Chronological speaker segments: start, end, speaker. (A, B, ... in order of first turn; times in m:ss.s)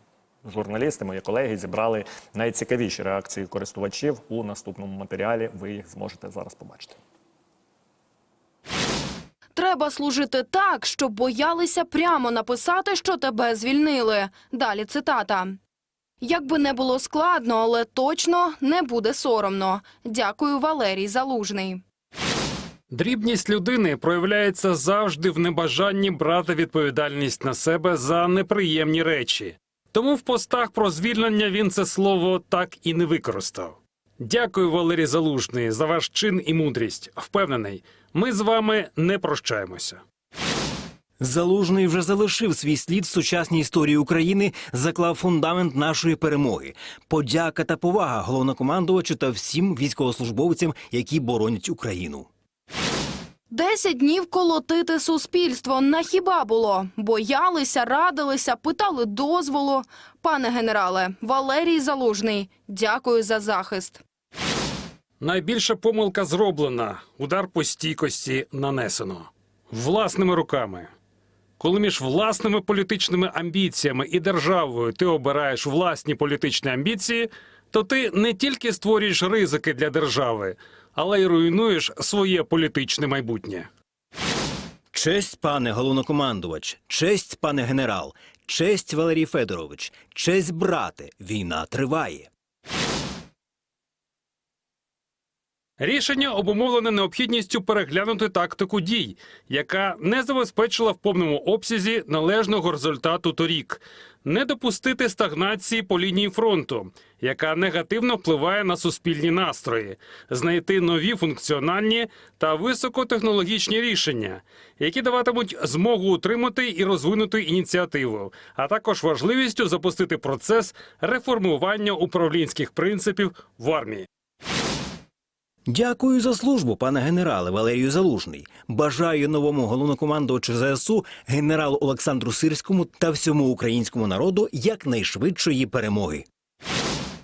0:00.4-0:07.0 A
0:09.6-0:15.6 B
0:16.2-0:21.8 B
0:22.9-0:40.0 C
0:41.2-0:52.3 D
0:53.5-1:04.0 B
1:05.2-1:10.9 C
1:11.6-1:23.7 C
1:24.9-1:32.3 D
1:35.8-2:04.1 C
2:05.6-2:16.2 D